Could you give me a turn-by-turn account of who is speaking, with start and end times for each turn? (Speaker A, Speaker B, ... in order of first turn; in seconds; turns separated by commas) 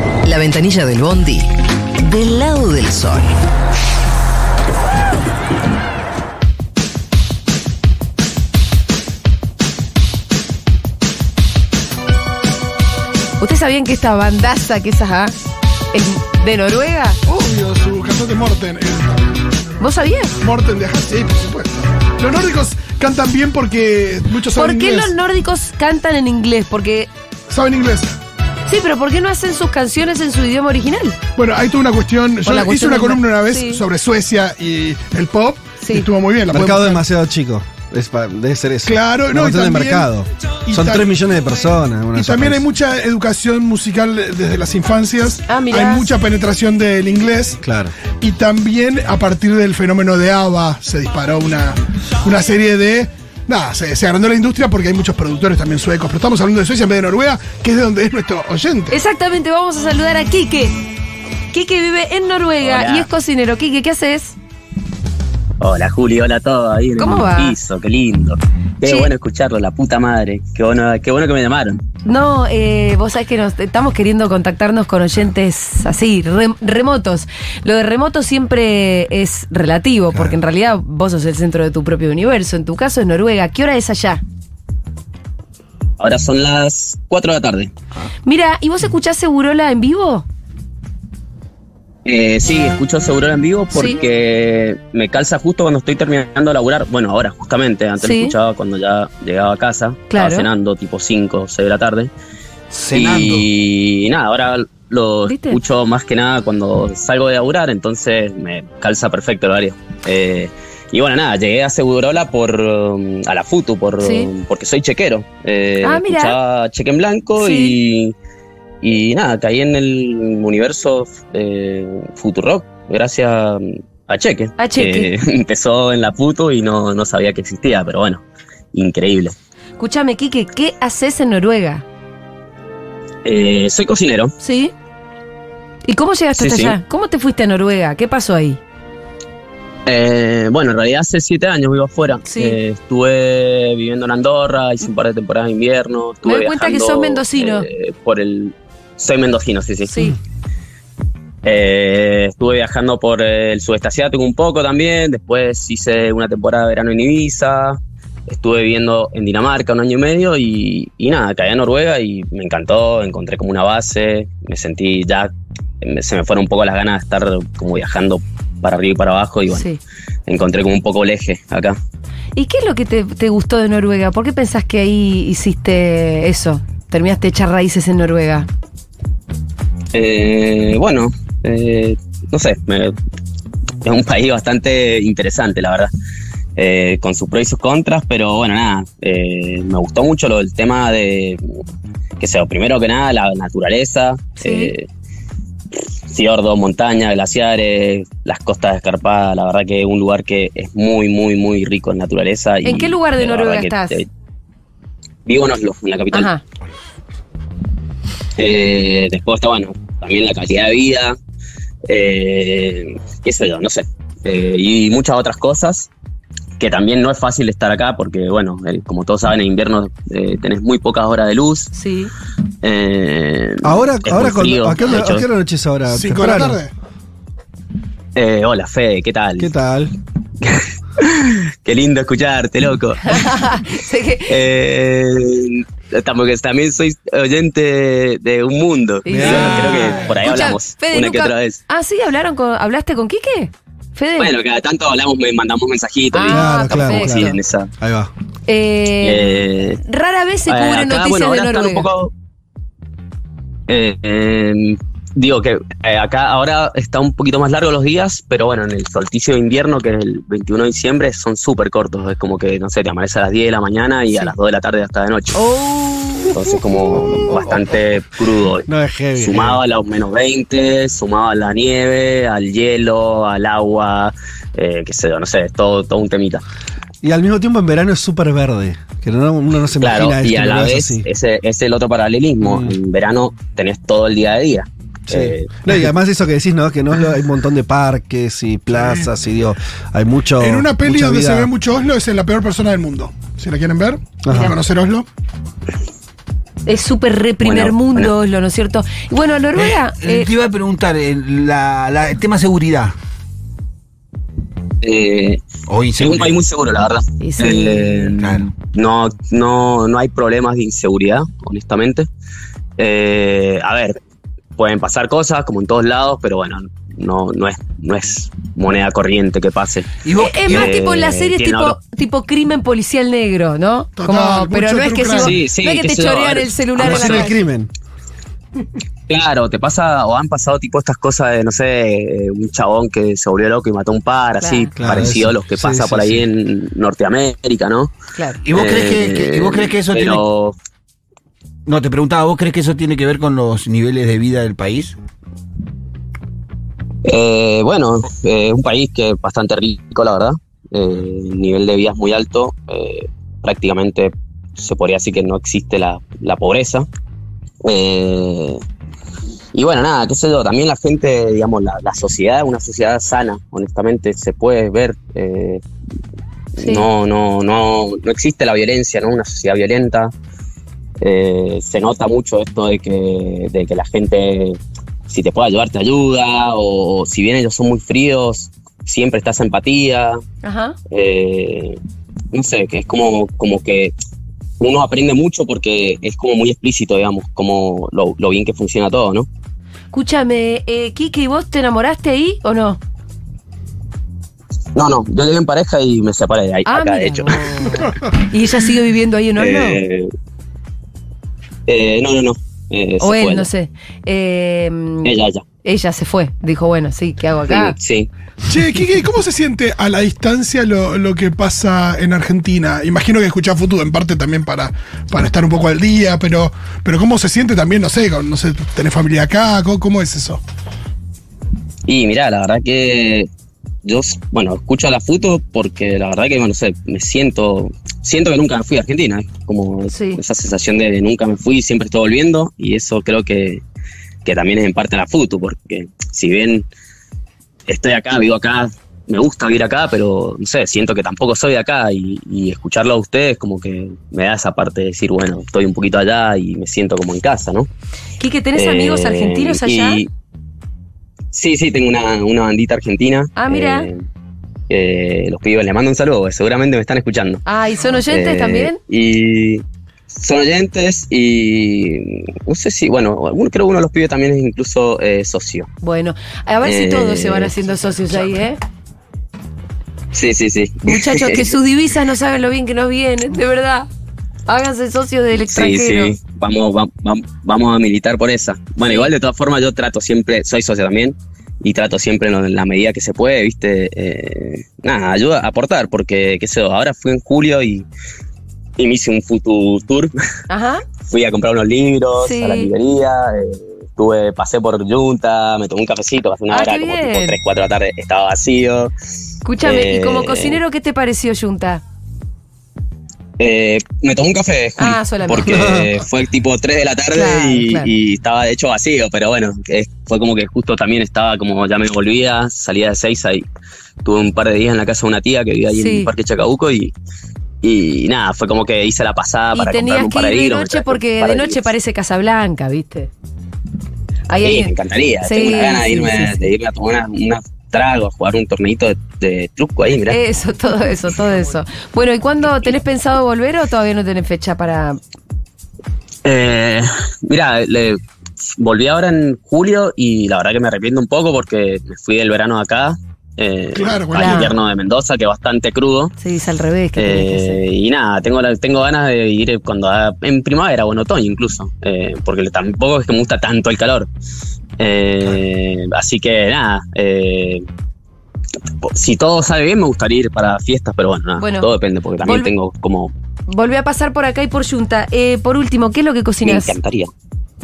Speaker A: 0.2-1.5, Speaker A: 2.0-3.3, Speaker B: 13.4-15.3, Speaker B: 15.9-17.2, Speaker C: 17.2-19.8, Speaker B: 19.8-20.4, Speaker C: 20.4-25.1, Speaker B: 24.5-27.1, Speaker C: 27.5-28.2, Speaker B: 28.6-31.2, Speaker C: 31.4-37.0, Speaker B: 32.4-33.8, Speaker B: 35.8-36.1, Speaker D: 36.5-42.6, Speaker C: 38.8-40.1, Speaker C: 40.6-41.1, Speaker C: 42.1-47.6, Speaker B: 45.5-46.1, Speaker D: 47.6-47.9, Speaker C: 48.2-59.0, Speaker B: 58.9-60.7, Speaker B: 61.5-64.3, Speaker E: 62.6-63.1, Speaker E: 65.6-71.8, Speaker B: 67.0-67.5, Speaker B: 68.8-69.1, Speaker B: 72.0-84.2, Speaker E: 86.0-87.7, Speaker B: 88.2-90.2, Speaker E: 92.0-102.1, Speaker B: 93.7-94.0, Speaker B: 98.0-98.3, Speaker B: 100.1-100.5, Speaker F: 102.7-103.5, Speaker E: 102.9-118.1, Speaker B: 105.2-105.6, Speaker B: 114.0-114.3, Speaker B: 115.8-116.4, Speaker B: 117.4-117.8, Speaker E: 118.8-129.3, Speaker B: 124.6-125.1, Speaker B: 129.8-131.8, Speaker E: 133.2-134.3, Speaker B: 134.4-134.7, Speaker B: 135.8-138.6, Speaker E: 136.3-136.8, Speaker E: 139.8-150.1, Speaker B: 142.2-142.6, Speaker B: 146.2-147.7, Speaker B: 149.9-150.2, Speaker E: 151.4-165.3, Speaker E: 165.8-169.7, Speaker B: 169.5-169.8, Speaker E: 170.3-171.8, Speaker B: 172.3-178.5, Speaker E: 179.9-182.9, Speaker E: 183.8-185.9, Speaker E: 186.6-191.4, Speaker E: 192.2-194.9, Speaker B: 194.4-194.7, Speaker E: 196.1-204.1, Speaker B: 202.6-204.0, Speaker E: 205.2-206.3, Speaker B: 206.1-206.4, Speaker E: 208.4-211.2, Speaker E: 211.9-215.9, Speaker E: 216.6-221.7, Speaker B: 221.7-222.1, Speaker E: 222.6-225.3, Speaker D: 223.6-226.6, Speaker C: 225.9-226.7, Speaker E: 228.1-229.5, Speaker D: 229.4-229.9, Speaker E: 230.4-233.5, Speaker B: 233.1-234.4, Speaker E: 234.3-241.6, Speaker B: 239.0-244.3, Speaker D: 239.1-240.2, Speaker E: 244.2-247.7, Speaker B: 246.1-247.4, Speaker D: 246.3-248.1, Speaker B: 248.5-249.3, Speaker E: 249.0-249.8, Speaker B: 249.8-251.9, Speaker E: 250.5-252.1, Speaker E: 253.7-265.4, Speaker B: 265.3-266.4, Speaker E: 266.3-276.4, Speaker D: 266.9-267.6, Speaker D: 268.7-269.6, Speaker D: 277.0-281.1, Speaker E: 279.8-285.7, Speaker D: 282.4-282.7, Speaker D: 285.1-291.5, Speaker C: 288.8-289.1, Speaker C: 290.4-295.1, Speaker D: 294.2-294.5, Speaker B: 296.6-300.3, Speaker E: 297.4-298.1, Speaker F: 299.6-302.9, Speaker E: 304.8-305.4, Speaker F: 305.7-306.4, Speaker E: 306.0-312.1, Speaker B: 307.2-308.1, Speaker F: 308.2-308.4, Speaker E: 312.8-314.0, Speaker E: 314.6-319.9, Speaker F: 320.0-320.9, Speaker B: 320.1-327.4, Speaker E: 320.4-321.8, Speaker C: 324.0-325.4, Speaker E: 325.1-327.3, Speaker D: 326.8-327.7, Speaker E: 329.1-337.9, Speaker B: 334.4-334.7, Speaker D: 334.8-336.2, Speaker B: 338.1-338.4, Speaker F: 338.4-340.2, Speaker E: 338.5-340.6, Speaker F: 341.6-344.9, Speaker E: 347.0-356.9, Speaker E: 357.6-358.6, Speaker E: 359.5-365.6, Speaker E: 366.6-370.1, Speaker B: 366.6-366.9, Speaker E: 371.0-380.2, Speaker B: 380.4-380.8, Speaker E: 380.9-381.8, Speaker E: 382.3-383.9, Speaker E: 384.6-389.3, Speaker B: 389.9-392.8, Speaker E: 394.7-397.8, Speaker B: 396.6-399.8, Speaker E: 399.4-400.1, Speaker E: 401.7-403.5, Speaker B: 403.0-405.1, Speaker E: 405.0-405.4, Speaker B: 405.6-407.7, Speaker E: 407.5-408.1, Speaker C: 408.5-420.4, Speaker E: 421.9-423.3, Speaker E: 423.8-433.6, Speaker B: 429.9-430.2, Speaker E: 434.2-436.7, Speaker E: 437.7-447.7, Speaker B: 448.2-450.0, Speaker E: 448.5-450.1, Speaker E: 451.3-454.1, Speaker B: 453.4-453.9, Speaker E: 454.7-457.4, Speaker B: 457.4-458.8, Speaker E: 458.1-465.7, Speaker B: 465.8-468.6, Speaker E: 466.6-467.5, Speaker E: 470.1-471.5, Speaker B: 470.8-473.9, Speaker B: 474.5-476.1, Speaker E: 475.4-487.9, Speaker B: 478.8-479.1, Speaker E: 488.8-490.1, Speaker B: 490.5-490.8, Speaker E: 491.1-498.9, Speaker B: 492.2-492.7, Speaker B: 496.5-497.4, Speaker B: 499.4-501.8, Speaker E: 499.6-500.6, Speaker E: 503.4-513.5, Speaker B: 504.8-505.5, Speaker D: 505.4-505.9, Speaker B: 507.1-507.9, Speaker E: 514.0-516.9, Speaker B: 515.7-516.1, Speaker E: 517.6-521.7, Speaker B: 519.5-523.1, Speaker B: 524.3-526.3, Speaker E: 524.4-530.2, Speaker B: 530.1-535.0, Speaker E: 536.2-538.0, Speaker E: 538.6-546.1, Speaker C: 543.7-544.5, Speaker B: 544.1-544.5, Speaker B: 546.2-547.6, Speaker E: 547.0-554.1, Speaker E: 554.8-557.6, Speaker E: 558.8-563.1, Speaker B: 561.4-561.7, Speaker B: 562.2-562.5, Speaker B: 563.5-566.8, Speaker E: 566.4-567.1